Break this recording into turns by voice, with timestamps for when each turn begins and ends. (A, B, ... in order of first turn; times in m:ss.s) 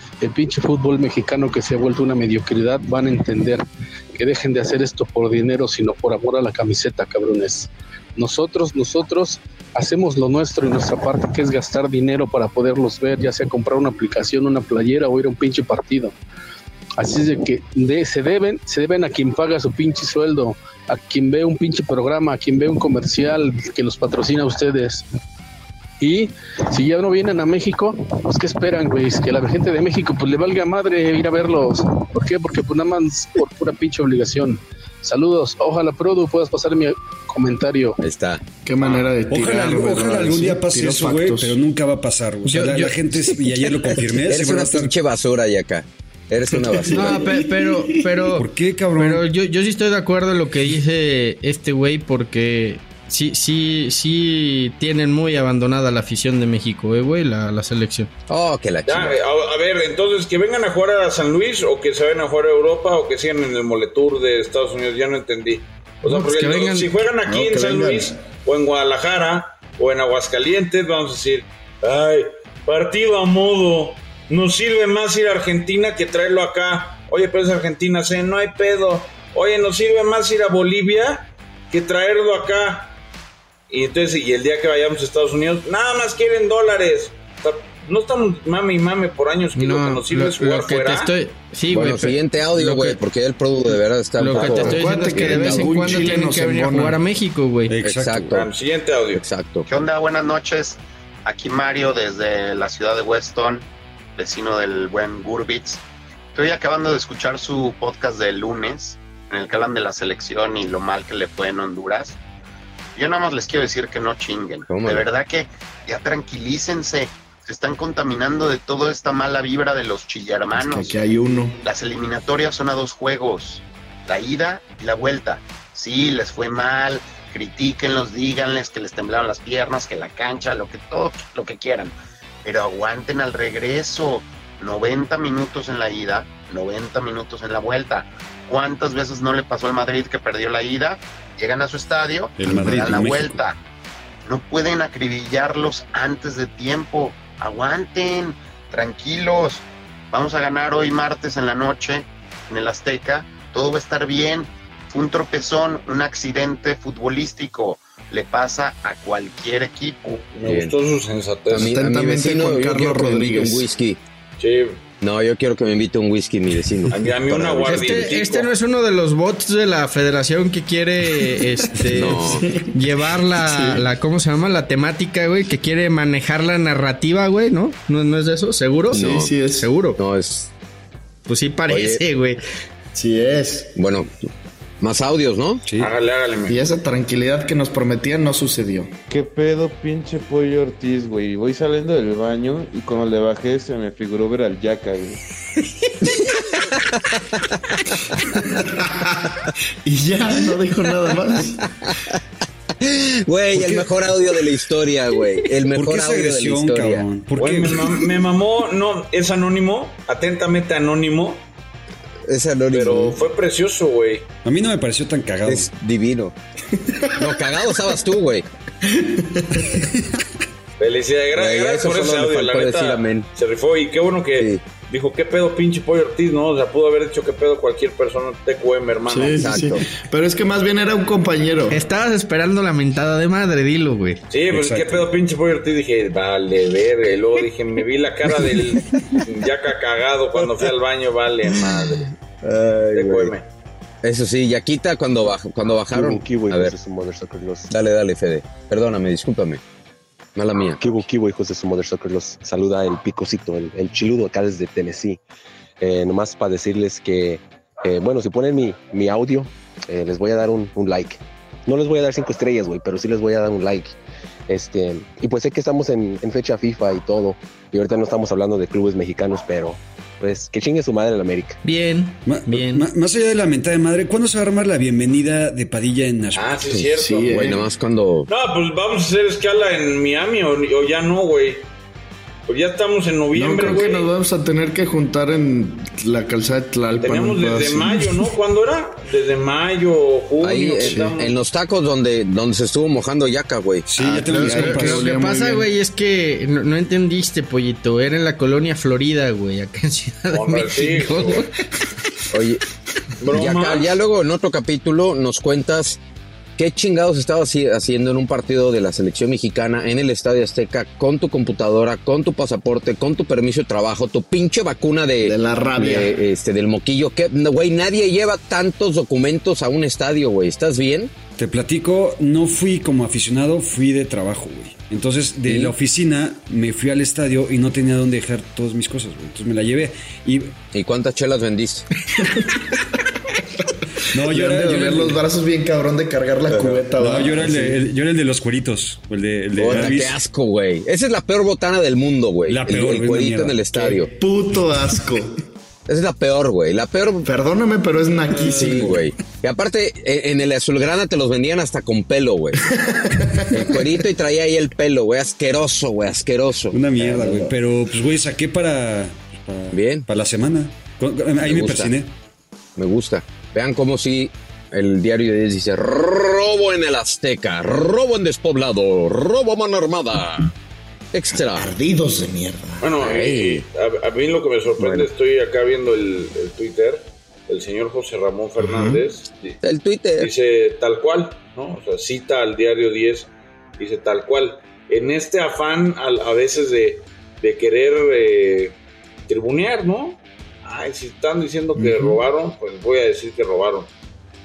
0:00.2-0:16.1 A
0:17.0-0:25.0 A
0:26.0-0:38.0 A
0:38.0-0:38.4 B
0:38.6-0:41.5 C
0:39.3-0:44.9 D
0:42.4-0:43.0 E
0:44.3-0:47.2 B
0:46.6-0:47.6 C
0:46.9-0:48.4 E
0:48.3-0:49.2 D
0:49.0-0:58.1 E
0:58.3-0:59.2 B
0:58.8-1:22.9 F
1:06.0-1:06.9 E
1:07.2-1:08.1 C
1:23.7-1:31.1 F
1:29.6-1:33.0 E
1:31.7-1:35.8 B
1:34.2-1:37.7 E
1:34.3-1:37.0 C
1:37.7-1:38.3 D
1:37.8-1:38.5 B
1:38.3-1:39.2 F
1:39.1-1:39.6 B
1:39.6-1:43.6 G
1:44.2-1:45.8 G
1:46.3-1:52.2 G
1:53.0-2:01.0 G
1:54.6-1:55.1 B
2:00.5-2:01.6 C
2:01.6-2:23.6 G
2:22.4-2:23.4 D
2:24.2-2:40.3 G
2:40.3-2:41.7 F
2:40.4-2:40.7 B
2:41.5-2:44.0 B
2:41.5-2:43.6 C
2:44.4-2:44.8 F
2:45.0-2:48.0 B
2:46.9-2:48.5 F
2:47.6-2:59.0 E
2:51.9-2:52.7 C
2:51.9-2:52.5 B
2:53.4-2:53.8 C
2:58.9-2:59.7 C
2:58.9-2:59.3 B
2:59.6-3:00.0 E
3:00.0-3:00.5 B
3:01.3-3:02.4 E
3:01.7-3:02.0 B
3:02.9-3:03.7 C
3:03.7-3:04.3 B
3:04.8-3:05.6 B
3:05.8-3:06.6 F
3:06.5-3:08.9 C
3:09.1-3:15.2 H
3:18.5-3:21.6 C
3:21.8-3:22.2 B
3:22.8-3:27.0 B
3:23.5-3:23.9 D
3:25.7-3:27.8 D
3:27.4-3:31.4 F
3:32.2-3:33.2 B
3:32.7-3:34.2 F
3:34.4-3:35.7 D
3:35.4-3:36.3 B
3:37.2-3:38.4 B
3:38.9-3:39.7 C
3:40.8-3:49.6 F
3:41.3-3:43.2 B
3:44.4-3:44.6 B
3:49.1-3:51.8 C
3:49.4-3:49.8 B
3:51.7-3:54.2 E
3:54.3-4:02.1 F
3:54.5-3:55.1 D
4:02.5-4:03.3 C
4:02.9-4:03.4 F
4:04.0-4:06.7 B
4:05.9-4:07.7 I
4:07.7-4:09.6 B
4:10.3-4:11.0 B
4:10.8-4:15.2 I
4:15.8-4:24.0 I
4:24.5-4:31.6 I
4:31.6-4:32.9 E
4:32.2-4:36.6 D
4:36.3-4:37.6 F
4:36.7-4:38.3 B
4:36.8-4:37.7 C
4:38.3-4:41.6 F
4:42.5-4:44.1 F
4:43.3-4:48.2 C
4:47.0-4:51.3 F
4:50.4-4:54.3 B
4:50.8-4:51.1 C
4:53.9-4:55.1 D
4:54.0-4:55.7 C
4:54.3-5:01.5 E
5:00.3-5:01.4 F
5:02.3-5:02.6 B
5:03.2-5:04.0 F
5:03.3-5:06.0 B
5:06.6-5:21.1 B
5:15.2-5:16.1 C
5:21.4-5:30.5 D
5:25.4-5:25.7 B
5:30.7-5:31.9 B
5:32.2-5:32.6 C
5:34.1-5:35.2 D
5:34.2-5:37.8 C
5:36.5-5:36.8 B
5:36.9-5:40.2 D
5:39.6-5:44.1 B
5:39.7-5:40.0 C
5:42.5-5:43.6 D
5:43.7-5:45.3 C
5:45.9-5:47.3 B
5:47.2-5:49.1 C
5:48.4-5:52.6 B
5:52.9-5:53.8 C
5:53.5-5:57.3 B
5:56.7-6:02.1 D
5:57.0-5:57.5 C
5:59.7-6:00.0 B
6:01.4-6:01.9 B
6:02.8-6:10.5 B
6:11.1-6:11.7 B
6:11.3-6:12.9 C
6:12.8-6:19.6 F
6:13.0-6:13.6 B
6:14.8-6:15.1 B
6:18.6-6:19.0 C
6:19.6-6:20.3 B
6:20.2-6:28.7 F
6:29.3-6:33.9 F
6:31.8-6:32.2 C